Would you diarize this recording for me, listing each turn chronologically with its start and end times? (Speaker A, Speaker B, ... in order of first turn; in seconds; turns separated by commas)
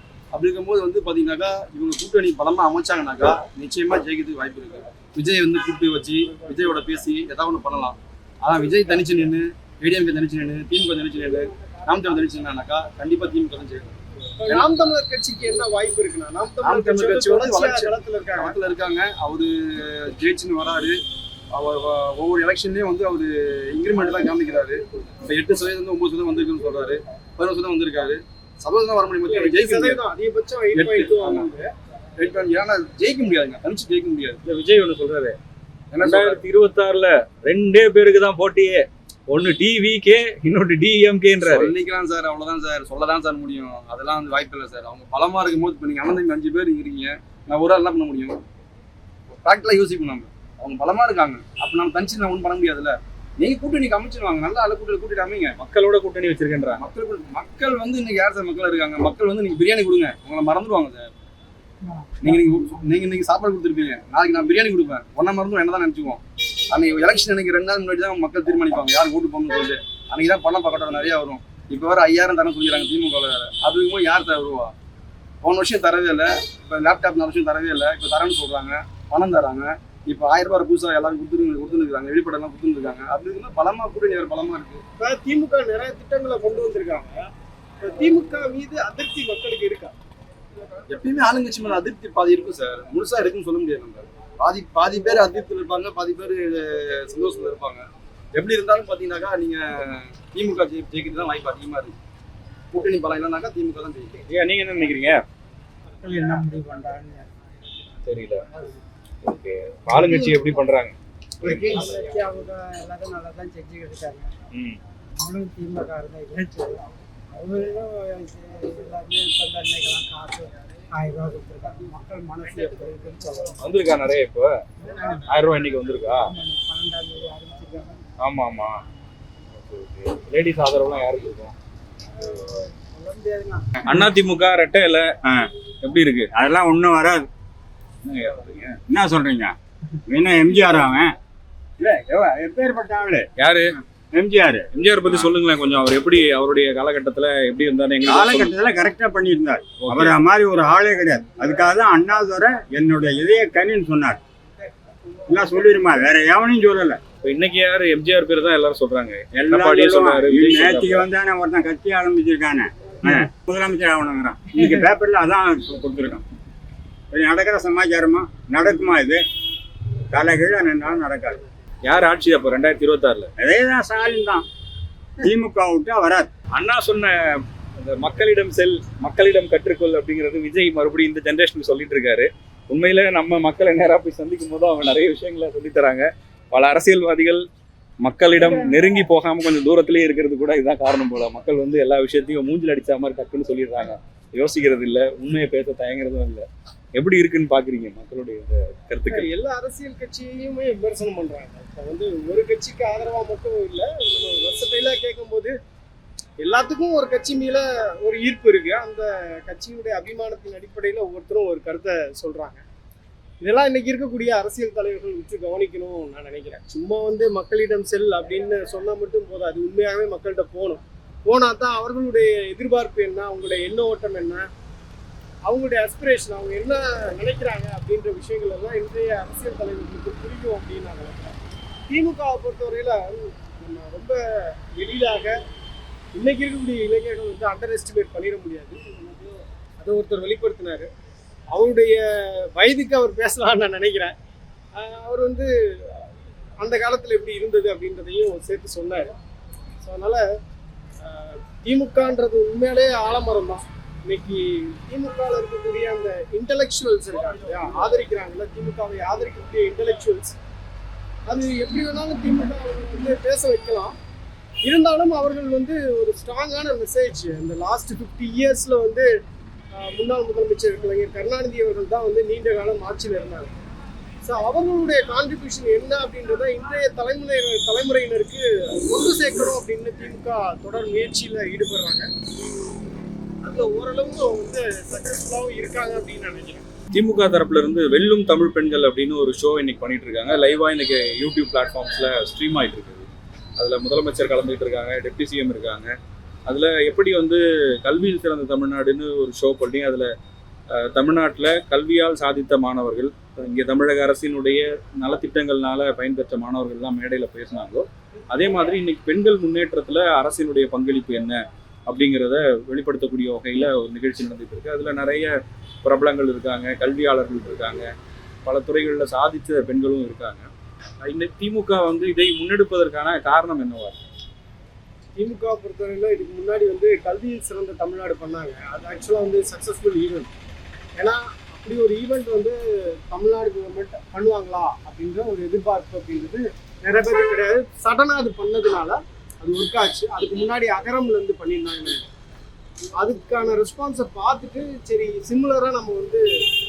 Speaker A: 0.3-14.7, Speaker B: 14.4-18.5, Speaker A: 16.6-21.0, Speaker A: 21.5-30.0, Speaker B: 29.3-31.7, Speaker A: 30.7-31.5, Speaker A: 32.2-34.4, Speaker C: 34.4-35.4, Speaker A: 35.9-36.4, Speaker C: 36.0-41.7, Speaker A: 41.4-48.4, Speaker A: 49.3-55.5, Speaker C: 55.5-56.8, Speaker A: 56.8-61.1, Speaker A: 62.2-74.7, Speaker A: 75.4-84.8, Speaker B: 85.0-87.2, Speaker B: 87.8-89.9, Speaker A: 90.9-102.0, Speaker A: 102.7-104.2, Speaker C: 104.3-105.2, Speaker D: 106.0-107.3, Speaker C: 108.0-108.4, Speaker C: 109.2-112.0, Speaker D: 109.9-110.4, Speaker D: 111.5-114.3, Speaker D: 115.2-123.7, Speaker C: 123.6-124.5, Speaker D: 124.8-125.3, Speaker C: 125.3-126.3, Speaker D: 126.1-128.0, Speaker C: 128.2-128.7, Speaker C: 129.5-131.5, Speaker D: 132.2-133.7, Speaker C: 133.8-135.1, Speaker C: 135.8-136.3, Speaker E: 136.3-137.2, Speaker C: 138.0-138.8, Speaker E: 138.9-139.5, Speaker E: 140.1-141.1, Speaker E: 141.8-143.3, Speaker C: 143.4-143.7, Speaker E: 144.1-145.2, Speaker C: 144.7-148.5, Speaker E: 148.1-154.2, Speaker C: 149.8-150.2, Speaker E: 155.3-157.0, Speaker C: 157.2-161.1, Speaker E: 159.3-166.2, Speaker E: 167.1-169.2, Speaker E: 170.1-171.4, Speaker C: 171.8-173.3, Speaker E: 173.4-174.4, Speaker E: 175.2-176.3, Speaker C: 176.5-177.1, Speaker C: 177.8-187.4, Speaker C: 188.0-199.3, Speaker B: 199.1-205.5, Speaker B: 206.4-212.6, Speaker B: 213.4-224.4, Speaker B: 225.5-231.3, Speaker B: 231.9-235.3, Speaker B: 236.2-240.9, Speaker B: 241.5-244.1, Speaker B: 244.8-246.0, Speaker B: 246.6-249.1, Speaker B: 249.8-250.2, Speaker B: 251.0-260.4, Speaker B: 261.3-263.9, Speaker B: 264.6-269.1, Speaker B: 269.7-273.5, Speaker B: 274.2-282.1, Speaker B: 283.4-286.7, Speaker C: 286.9-295.9, Speaker C: 296.4-300.1, Speaker C: 300.7-315.3, Speaker C: 315.8-317.9, Speaker C: 318.4-320.5, Speaker C: 321.0-324.0, Speaker B: 325.1-330.3, Speaker B: 331.0-332.6, Speaker B: 333.1-342.1, Speaker B: 343.0-346.2